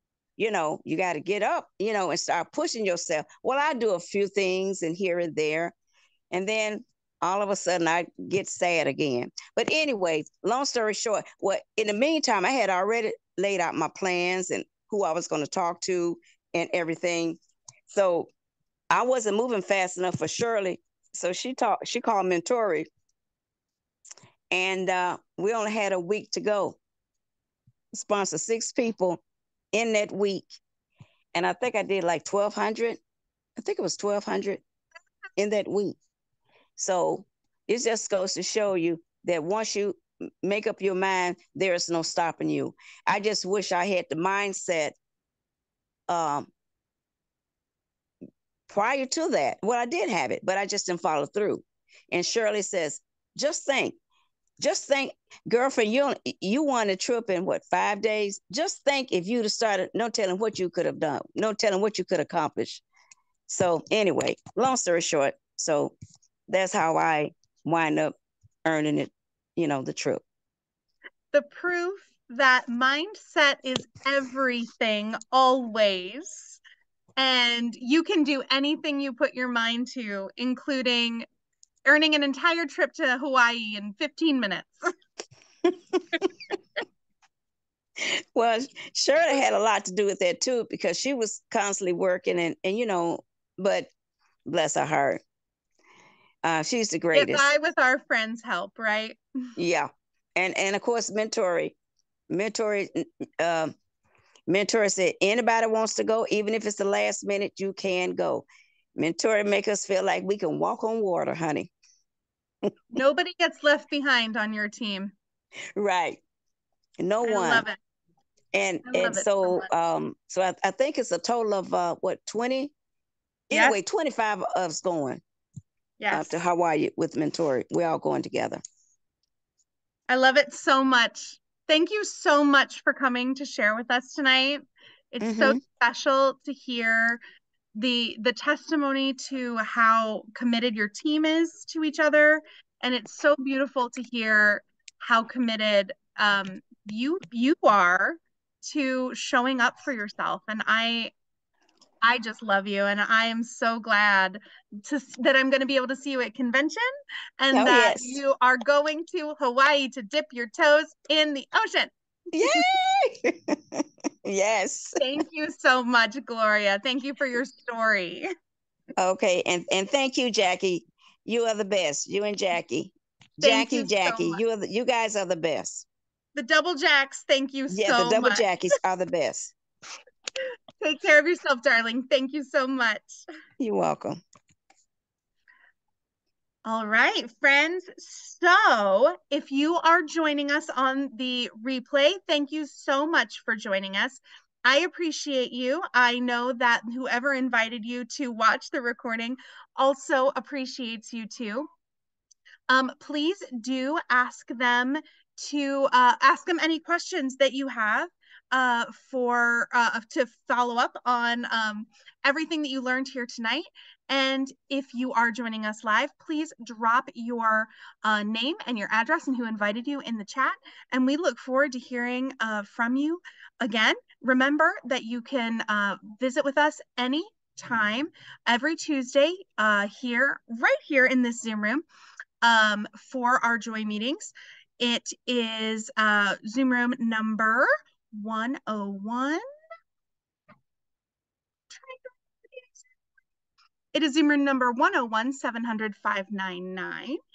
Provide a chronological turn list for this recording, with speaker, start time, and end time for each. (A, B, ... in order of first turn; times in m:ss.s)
0:00.4-0:05.8 A
0:06.3-0:17.4 A
0:17.9-0:18.3 A
0:18.9-0:22.9 A
0:24.5-0:26.8 A
0:27.9-0:29.2 A
0:29.7-0:30.5 A
0:31.3-0:33.0 A
0:33.6-0:34.6 A
0:35.4-0:36.0 A
0:36.8-0:45.0 A
0:46.1-0:46.5 A
0:48.7-0:54.0 A
0:54.6-1:02.8 A
1:03.5-1:05.9 A
1:06.5-1:08.1 A
1:08.6-1:10.2 A
1:11.3-1:16.6 B
1:17.2-1:21.2 B
1:21.9-1:24.8 B
1:25.7-1:26.3 A
1:28.4-1:33.9 A
1:34.5-1:35.2 A
1:36.4-1:37.5 A
1:37.1-1:39.2 B
1:39.6-1:41.8 A
1:42.3-1:43.7 A
1:44.5-1:48.4 A
1:49.0-1:51.7 A
1:52.9-1:55.1 B
1:55.8-1:56.2 A
1:57.0-1:57.6 A
1:57.2-1:57.8 B
1:58.5-2:02.7 A
1:58.8-1:59.7 B
2:03.5-2:05.2 A
2:03.5-2:03.8 B
2:06.0-2:06.4 B
2:06.1-2:08.6 A
2:10.1-2:17.2 B
2:15.2-2:15.6 A
2:17.8-2:31.1 B
2:32.0-2:36.8 B
2:37.4-2:42.7 B
2:37.5-2:38.2 A
2:42.3-2:45.0 A
2:45.0-2:48.2 B
2:49.0-2:55.9 A
2:53.4-2:54.4 B
2:56.4-2:58.5 B
2:57.7-2:59.5 A
3:00.8-3:03.2 B
3:03.6-3:04.2 A
3:06.6-3:21.7 B
3:22.7-3:51.8 B
3:52.4-3:59.4 B
4:01.7-4:02.8 B
4:03.9-4:07.2 B